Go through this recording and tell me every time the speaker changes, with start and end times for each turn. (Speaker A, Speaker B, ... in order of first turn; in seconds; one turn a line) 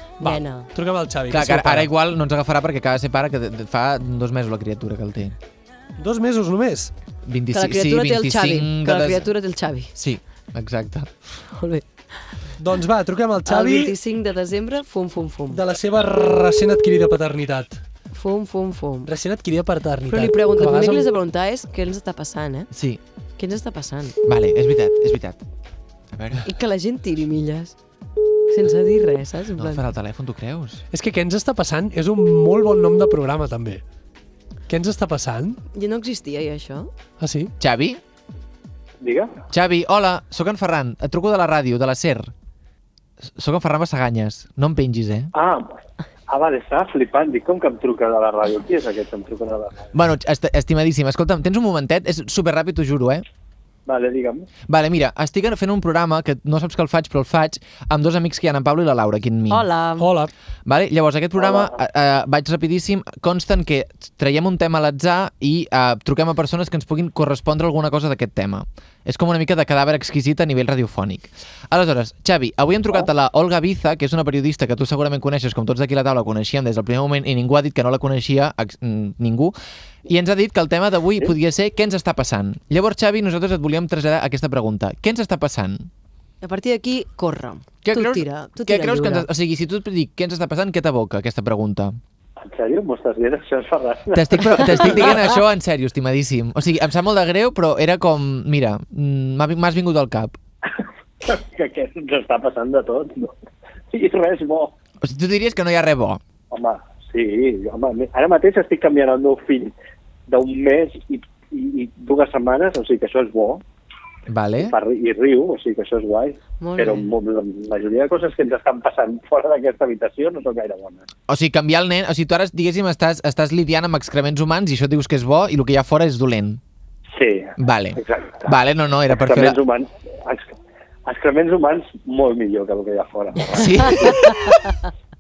Speaker A: 0.2-0.7
Speaker B: 0.2-1.9
Speaker C: 1.3-5.4
Speaker B: 6.0-6.9
Speaker C: 7.2-9.3
Speaker A: 7.5-9.9
Speaker C: 10.0-11.1
Speaker A: 11.5-11.9
Speaker B: 12.6-13.9
Speaker A: 13.4-15.6
Speaker B: 15.5-17.8
Speaker A: 18.1-19.1
Speaker B: 19.1-21.1
Speaker A: 20.1-22.7
Speaker C: 22.7-23.0
Speaker A: 23.4-24.2
Speaker C: 24.2-25.4
Speaker C: 26.1-26.4
Speaker A: 26.4-27.8
Speaker A: 28.5-29.8
Speaker C: 29.6-30.8
Speaker B: 30.9-33.8
Speaker B: 34.7-35.6
Speaker A: 35.7-36.9
Speaker B: 37.2-37.5
Speaker C: 37.6-38.0
Speaker D: 39.0-39.4
Speaker C: 39.5-42.3
Speaker C: 43.4-45.3
Speaker D: 45.3-49.9
Speaker C: 49.9-53.2
Speaker D: 53.9-54.5
Speaker C: 54.7-59.6
Speaker A: 59.5-60.1
Speaker B: 60.0-60.3
Speaker C: 60.7-79.5
Speaker D: 61.4-61.8
Speaker C: 80.1-85.9
Speaker A: 86.4-89.3
Speaker C: 87.8-92.0
Speaker D: 92.4-95.3
Speaker C: 94.1-100.4
Speaker D: 101.2-103.4
Speaker D: 103.9-104.8
Speaker C: 105.0-106.2
Speaker D: 106.5-109.7
Speaker D: 110.3-113.6
Speaker C: 114.3-114.8
Speaker D: 114.6-121.1
Speaker A: 116.6-117.1
Speaker C: 121.3-126.6
Speaker D: 127.1-128.6
Speaker C: 127.6-129.6
Speaker D: 129.1-134.2
Speaker C: 133.5-134.7
Speaker A: 133.8-134.7